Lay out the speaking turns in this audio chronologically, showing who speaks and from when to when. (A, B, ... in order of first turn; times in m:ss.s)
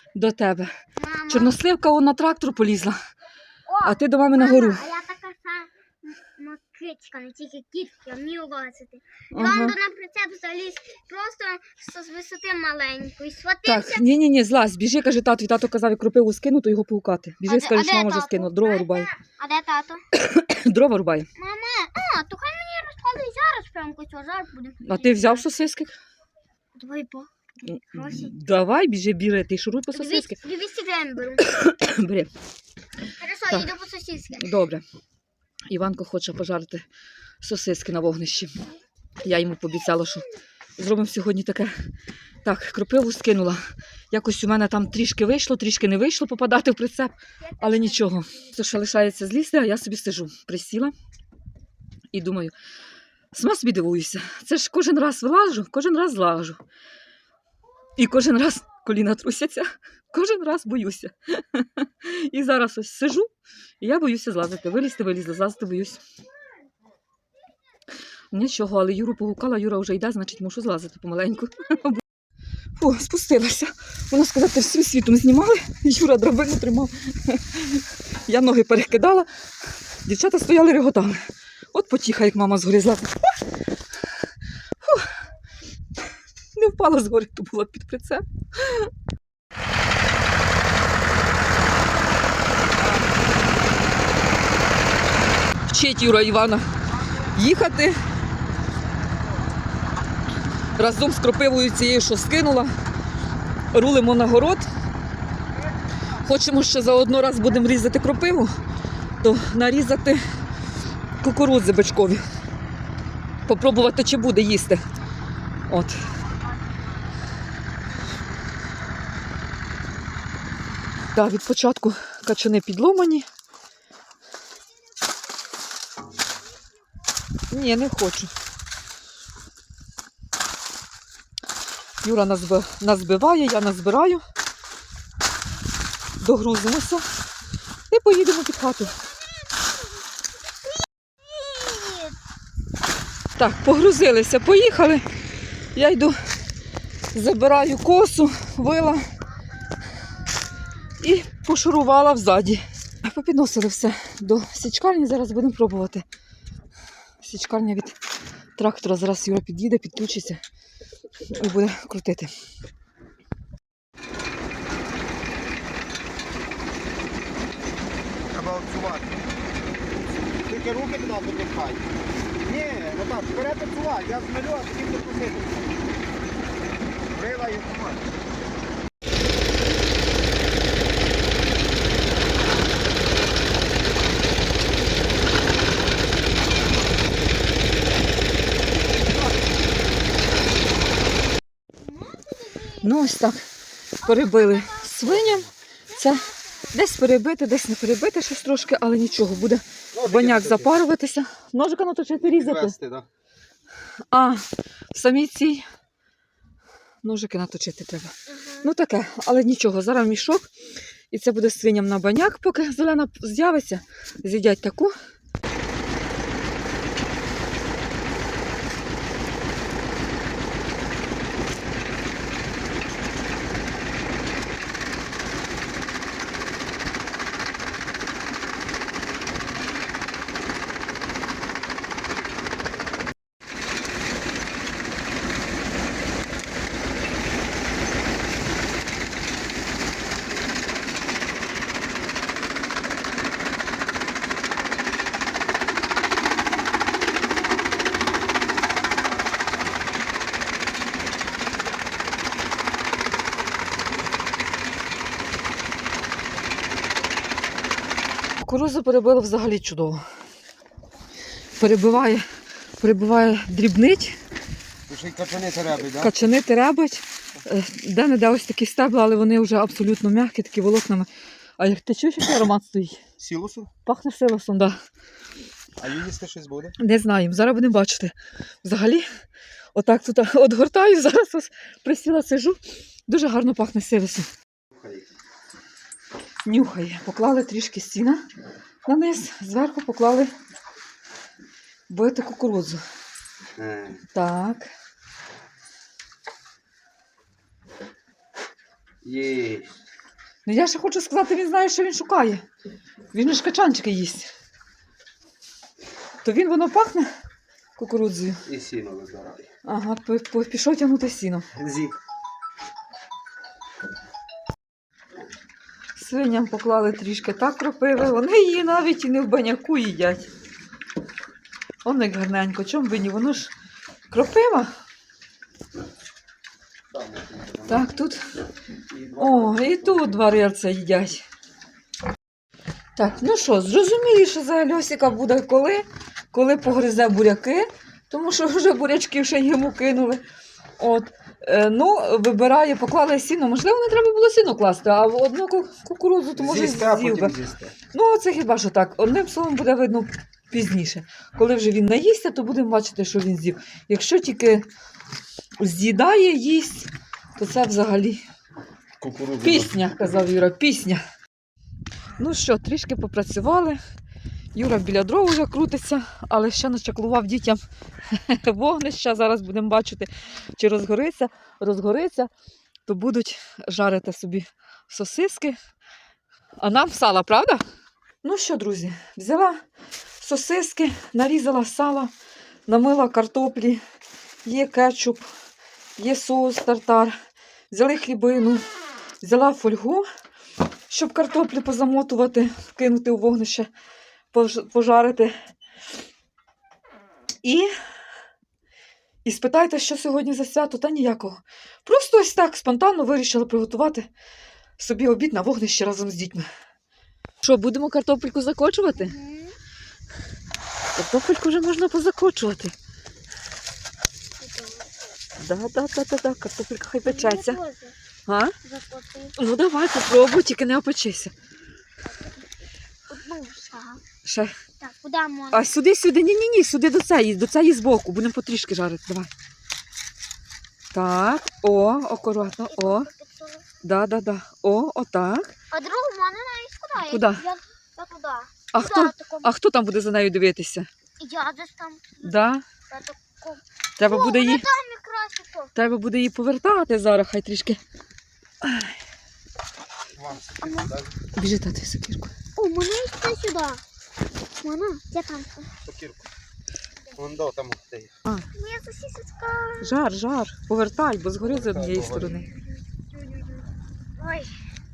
0:00.1-0:00.7 A
0:01.0-0:01.6 B
0:01.3-0:03.0 A
0:03.7-0:14.0 B
0:03.8-0:04.9 A
0:09.3-0:09.8 A
0:13.6-0:19.1 A
0:17.4-0:20.0 B
0:20.1-0:21.3 A
0:21.4-0:25.5 B
0:24.8-0:26.0 A
0:26.7-0:28.4 B
0:27.7-0:30.4 A
0:29.9-0:31.5 B
0:31.4-0:32.3 A
0:33.2-0:34.4 B
0:34.4-0:34.8 A
0:35.7-0:36.8 A
0:37.4-0:38.6 A
0:39.2-0:40.2 A
0:40.8-0:41.8 A
0:42.4-0:50.9 A
0:47.4-0:48.5 B
0:52.1-0:52.5 A
0:53.3-0:56.6 A
0:58.0-1:03.3 A
1:03.8-1:06.0 A
1:08.3-1:12.0 A
1:12.8-1:19.3 A
1:20.0-1:23.3 A
1:24.8-1:25.1 A
1:26.5-1:28.9 A
1:35.7-1:38.0 A
1:40.8-1:42.7 A
1:43.7-1:44.7 A
1:46.1-1:48.6 A
1:49.2-1:50.2 A
1:51.2-1:52.2 A
1:53.4-1:54.8 A
1:55.7-1:56.1 A
2:01.1-2:03.2 A
2:07.5-2:08.3 A
2:12.0-2:14.2 A
2:16.2-2:17.1 A
2:17.9-2:19.0 A
2:21.2-2:22.2 B
2:23.3-2:25.0 A
2:25.7-2:26.2 A
2:27.1-2:29.1 A
2:31.0-2:36.0 A
2:37.2-2:38.0 A
2:38.6-2:40.4 A
2:41.3-2:42.3 A
2:48.3-2:49.2 C
2:50.4-2:51.9 C
2:52.4-2:55.6 C
2:57.1-2:58.1 C
3:11.8-3:13.0 B
3:12.8-3:13.4 A
3:14.0-3:22.8 A
3:14.0-3:14.9 B
3:15.9-3:16.7 B
3:19.9-3:20.8 C
3:22.3-3:23.1 C
3:24.1-3:25.6 A
3:27.0-3:30.5 A
3:28.3-3:28.7 B
3:31.1-3:34.9 A
4:18.4-4:20.0 A
4:21.6-4:22.3 A
4:22.8-4:24.2 A
4:24.9-4:26.2 C
4:26.0-4:33.0 A
4:33.2-4:33.7 C
4:33.8-4:34.8 A
4:35.8-4:36.8 C
4:36.8-4:39.1 A
4:39.7-4:44.3 A
4:44.8-4:45.0 C
4:46.4-4:48.2 A
4:48.8-4:50.3 A
4:51.9-4:52.8 A
4:53.6-4:54.0 C
4:54.1-4:54.7 A
4:59.0-4:59.7 C
5:00.4-5:02.4 A
5:03.1-5:04.3 A
5:06.2-5:07.1 A
5:07.8-5:08.4 A
5:08.4-5:09.5 C
5:09.6-5:11.5 A
5:11.6-5:12.0 C
5:16.0-5:20.3 A
5:21.8-5:23.5 A
5:24.1-5:24.7 A
5:27.0-5:27.5 C
5:27.6-5:28.2 A
5:28.9-5:29.8 C
5:29.1-5:31.2 A
5:33.0-5:40.2 A
5:40.8-5:47.3 A
5:46.3-5:47.7 C
5:47.9-5:54.7 A
5:55.6-5:58.2 A
5:59.0-6:00.0 C
5:59.4-6:01.0 A
6:02.2-6:03.8 A
6:04.5-6:12.3 A
6:12.9-6:15.6 A
6:16.6-6:17.6 A
6:18.2-6:19.6 A
6:20.2-6:22.1 A
6:22.7-6:23.8 A
6:24.4-6:25.3 A
6:26.0-6:27.2 A
6:27.7-6:28.6 A
6:29.2-6:30.0 A
6:30.9-6:33.7 A
6:34.3-6:35.3 A
6:37.4-6:37.7 A
6:39.2-6:44.1 A
6:44.8-6:46.4 A
6:47.4-6:49.2 A
6:48.9-6:49.6 B
6:50.9-6:52.7 A
6:54.4-6:54.9 B
6:55.4-6:57.6 A
6:57.0-6:57.9 B
6:58.3-6:58.5 A
6:58.6-6:59.3 B
6:59.4-7:01.3 A
7:02.0-7:02.5 B
7:03.1-7:04.0 B
7:04.2-7:04.5 A
7:04.8-7:05.7 B
7:05.5-7:09.3 A
7:10.9-7:13.1 A
7:12.6-7:13.7 B
7:13.8-7:15.5 A
7:15.7-7:19.5 B
7:17.0-7:17.4 A
7:18.7-7:20.9 A
7:21.2-7:25.7 B
7:22.2-7:22.6 A
7:24.0-7:24.7 A
7:25.7-7:27.8 A
7:28.6-7:28.9 A
7:30.1-7:31.2 C
7:30.6-7:30.9 B
7:31.3-7:32.3 A
7:32.6-7:33.8 B
7:34.6-7:35.7 B
7:35.8-7:36.3 C
7:37.1-7:38.1 C
7:38.5-7:40.0 B
7:39.8-7:42.5 A
7:41.4-7:42.4 C
7:42.2-7:43.7 B
7:44.2-7:44.6 B